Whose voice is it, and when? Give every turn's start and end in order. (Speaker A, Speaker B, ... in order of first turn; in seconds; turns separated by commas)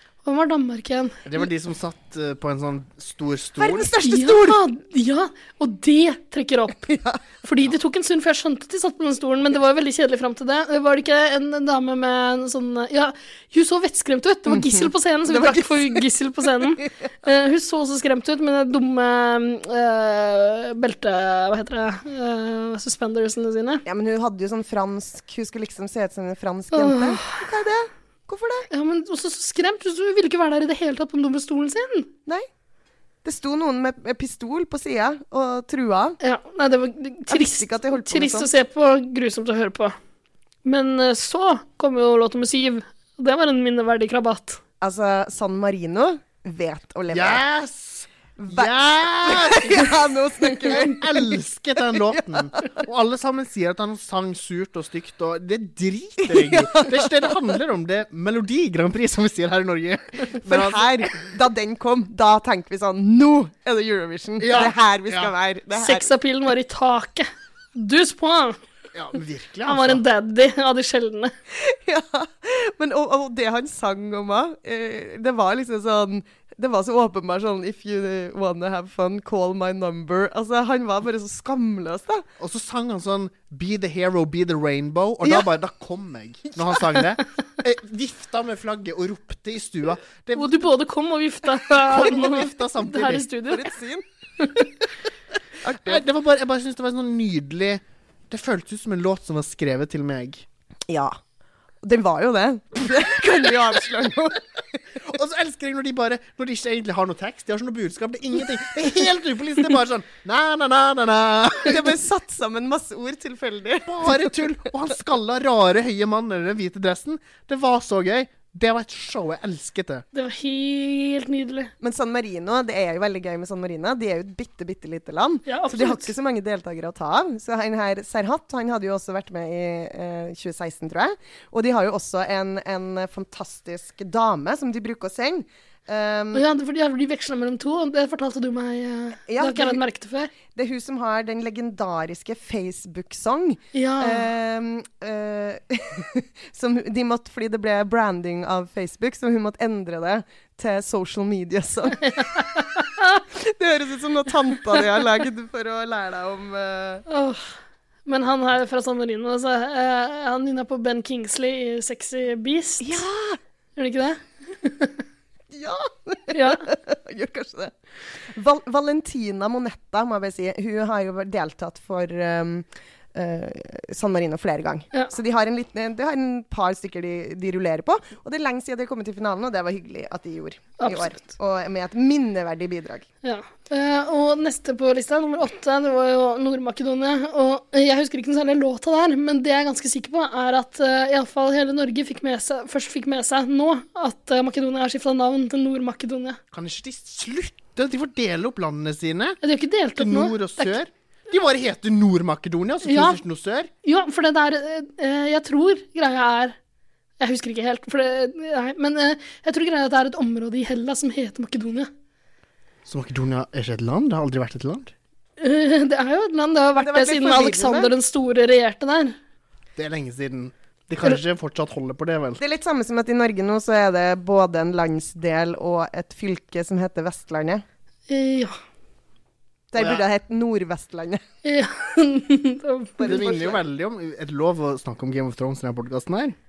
Speaker A: 0.2-1.2, Speaker B: 1.2-4.0, Speaker C: 3.6-4.6, Speaker A: 4.0-23.8, Speaker C: 6.9-7.2, Speaker C: 14.5-16.1, Speaker C: 23.9-28.7, Speaker A: 26.7-27.4, Speaker A: 28.7-32.1, Speaker C: 33.2-36.2, Speaker A: 36.2-40.0, Speaker C: 37.3-38.5, Speaker A: 40.6-44.6, Speaker C: 44.8-47.4, Speaker B: 47.1-50.0, Speaker C: 48.4-51.4, Speaker B: 50.7-61.3, Speaker C: 52.0-52.5, Speaker C: 56.2-57.4, Speaker C: 60.4-66.1, Speaker B: 64.4-65.3, Speaker A: 65.8-68.6, Speaker B: 69.0-70.0, Speaker A: 69.7-71.3, Speaker C: 71.5-82.3, Speaker B: 82.4-90.6, Speaker A: 90.4-93.6, Speaker B: 91.8-93.3, Speaker C: 93.4-94.0, Speaker C: 95.6-96.0, Speaker B: 95.8-100.5, Speaker C: 100.9-101.2, Speaker C: 101.8-104.4, Speaker B: 105.0-111.8, Speaker C: 111.6-114.4, Speaker B: 113.9-120.0, Speaker A: 120.1-121.7, Speaker C: 121.8-136.4, Speaker A: 125.5-126.1, Speaker A: 136.3-140.3, Speaker C: 139.3-139.8, Speaker C: 140.5-152.0, Speaker A: 143.7-144.3, Speaker A: 152.0-153.2, Speaker C: 153.3-157.0, Speaker A: 157.1-157.5, Speaker A: 158.1-163.0, Speaker C: 162.8-163.4, Speaker A: 163.8-165.0, Speaker C: 165.5-167.7, Speaker A: 166.3-166.6, Speaker C: 168.3-183.1, Speaker A: 180.8-181.2, Speaker A: 183.2-196.4, Speaker B: 196.5-199.4, Speaker A: 199.4-200.8, Speaker B: 200.0-203.7, Speaker A: 202.8-203.2, Speaker A: 203.8-206.6, Speaker A: 207.2-211.9, Speaker B: 212.9-214.9, Speaker A: 215.4-219.2, Speaker C: 216.8-217.9, Speaker B: 219.8-222.4, Speaker C: 222.4-227.6, Speaker A: 228.1-228.6, Speaker C: 229.7-231.2, Speaker B: 229.8-230.0, Speaker A: 231.4-233.2, Speaker C: 233.0-233.6, Speaker B: 233.1-236.4